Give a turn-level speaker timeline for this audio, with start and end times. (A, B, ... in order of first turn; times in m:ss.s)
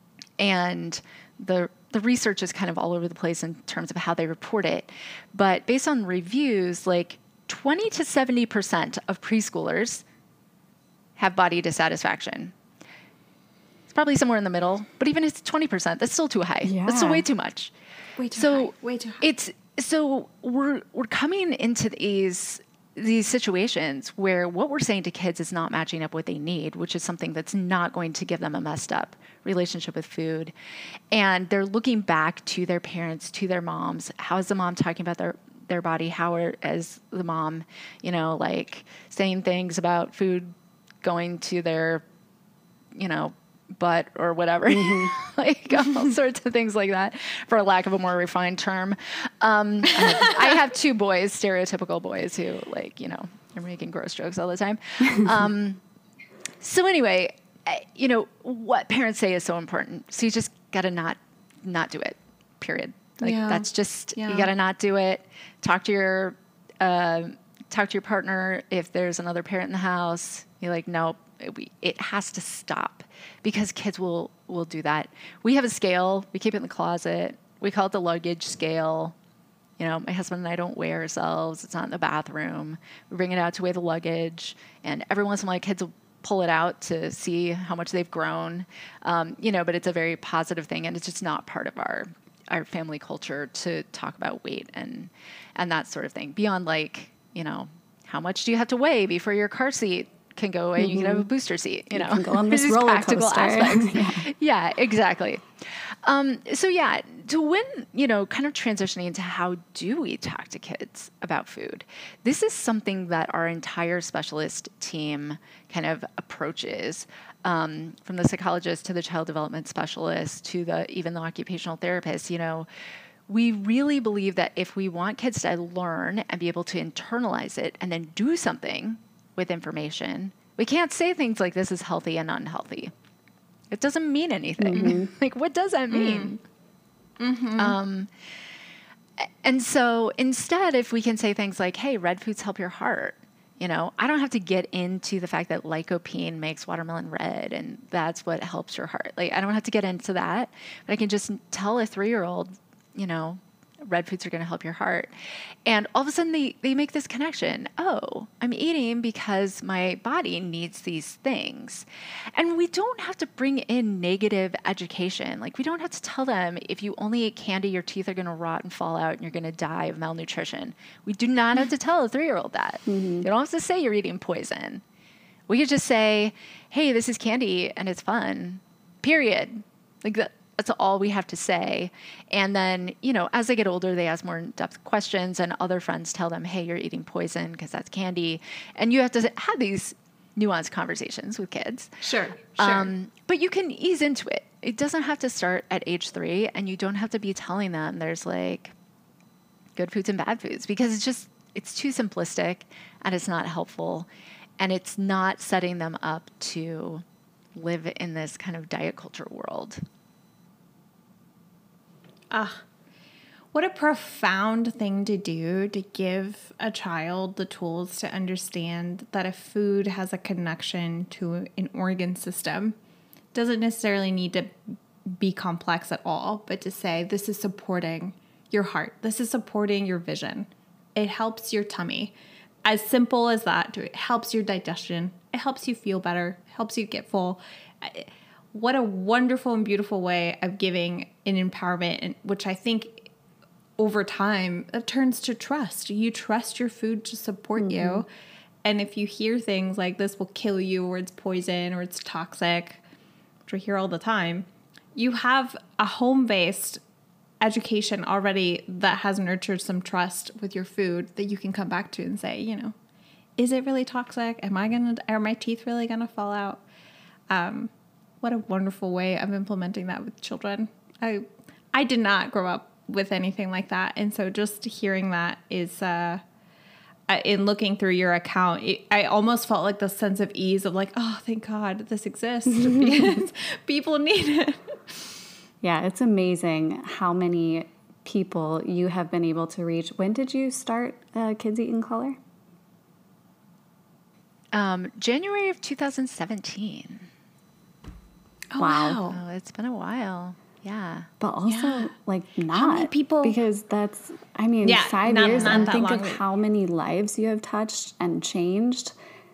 0:00.4-0:10.0 A
0:11.2-0:12.5 A
0:13.9-0:17.7 A
0:16.6-0:17.2 B
0:18.2-0:19.3 C
0:18.3-0:30.5 A
0:31.1-0:42.0 A
0:42.9-0:55.8 A
0:44.7-0:45.1 B
0:56.6-1:19.1 A
1:03.2-1:04.5 C
1:19.8-1:45.4 A
1:40.8-1:41.3 B
1:41.9-1:44.3 B
1:46.0-2:02.7 A
2:03.3-2:12.9 A
2:13.7-2:16.4 A
2:14.6-2:15.1 B
2:15.9-2:16.4 C
2:17.2-2:17.7 C
2:17.6-2:18.1 A
2:19.2-2:35.1 A
2:35.6-2:54.8 A
2:52.9-2:53.2 B
2:55.5-3:12.0 A
3:12.0-3:12.9 C
3:12.6-3:18.7 A
3:19.8-3:24.1 A
3:24.6-3:27.0 A
3:27.5-3:29.8 A
3:32.3-3:32.6 C
3:33.5-3:42.7 C
3:43.3-4:03.1 C
4:03.8-4:08.1 C
4:07.6-4:08.0 B
4:08.6-4:12.8 C
4:13.5-4:16.8 C
4:17.4-4:22.7 C
4:23.4-4:26.6 C
4:27.3-4:27.7 C
4:28.2-4:36.2 C
4:37.1-4:45.0 C
4:42.6-4:42.9 B
4:45.6-4:52.2 B
4:54.5-4:57.1 A
4:58.5-4:59.2 C
4:58.6-4:59.0 B
4:59.1-5:01.1 A
5:01.2-5:08.9 B
5:01.4-5:01.9 C
5:02.5-5:03.4 C
5:04.6-5:06.2 C